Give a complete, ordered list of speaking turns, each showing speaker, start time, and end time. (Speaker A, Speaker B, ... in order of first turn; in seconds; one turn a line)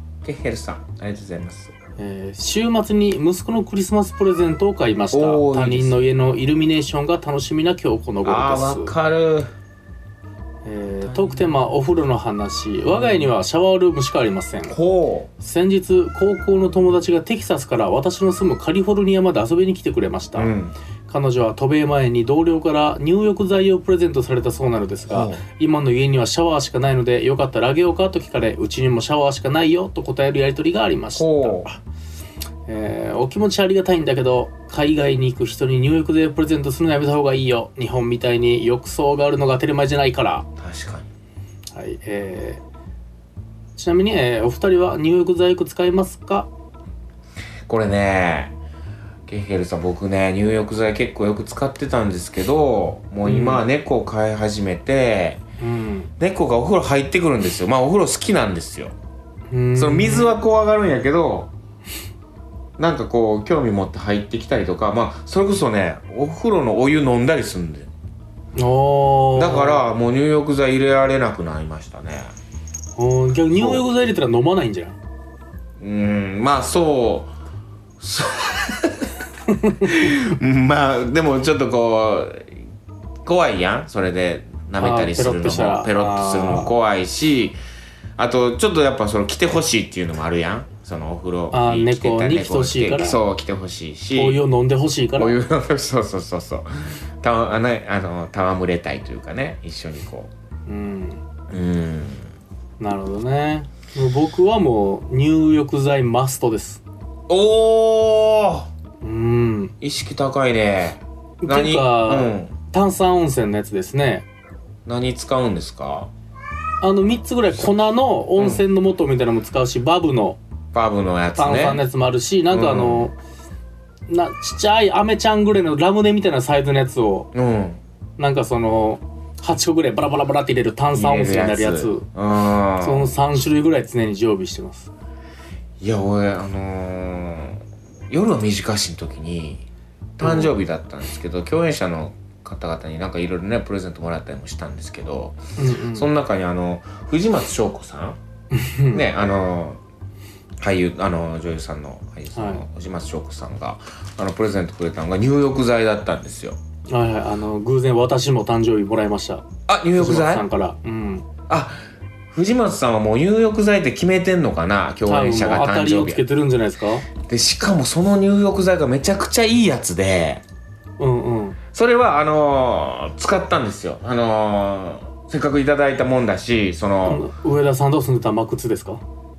Speaker A: 0.2-1.7
Speaker B: 2.0-8.9
Speaker A: 5.1-6.0
Speaker A: 8.2-9.5
Speaker B: 10.6-14.8
Speaker A: 11.0-11.7
Speaker A: 12.9-13.3
Speaker A: 14.7-15.3
Speaker B: 15.4-20.5
Speaker A: 20.4-20.8
Speaker B: 21.1-31.8
Speaker A: 25.1-25.4
Speaker A: 31.1-31.7
Speaker B: 32.7-40.5
Speaker A: 40.6-41.1
Speaker B: 41.7-42.6
Speaker B: 43.8-46.5
Speaker A: 47.7-48.5
Speaker A: 49.3-55.4
Speaker B: 53.2-53.6
Speaker B: 55.6-56.1
Speaker A: 56.2-59.0
Speaker B: 59.5-60.4
Speaker A: 59.8-61.5
Speaker A: 62.8-67.9
Speaker B: 68.5-69.8
Speaker A: 69.3-72.3
Speaker B: 73.0-75.0
Speaker A: 73.6-73.8
Speaker A: 75.8-77.3
Speaker A: 78.0-82.5
Speaker B: 79.7-80.2
Speaker A: 83.2-87.6
Speaker B: 84.8-86.7
Speaker A: 88.2-94.4
Speaker B: 91.5-93.2
Speaker B: 94.2-95.4
Speaker A: 95.2-100.3
Speaker B: 100.7-101.2
Speaker A: 101.5-102.3
Speaker B: 102.8-106.8
Speaker A: 107.3-108.7
Speaker B: 109.0-109.8
Speaker A: 109.8-112.5
Speaker B: 111.4-114.3
Speaker A: 114.9-116.1
Speaker B: 116.8-120.4
Speaker A: 118.4-118.6
Speaker A: 120.7-121.8
Speaker B: 121.4-123.2
Speaker A: 122.5-123.1
Speaker B: 124.1-127.3
Speaker A: 127.3-127.8
Speaker B: 128.2-132.1
Speaker A: 130.9-133.2
Speaker B: 132.8-134.9
Speaker A: 135.8-139.7
Speaker A: 140.2-145.4
Speaker B: 140.2-140.6
Speaker B: 145.6-146.1
Speaker A: 145.9-148.2
Speaker B: 148.5-149.1
Speaker A: 148.9-149.8
Speaker A: 150.6-156.6
Speaker B: 152.3-152.6
Speaker B: 156.9-161.3
Speaker A: 159.7-160.4
Speaker A: 161.5-166.2
Speaker B: 165.1-167.1
Speaker A: 167.2-170.4
Speaker B: 171.0-171.6
Speaker A: 171.7-177.2
Speaker B: 177.1-179.0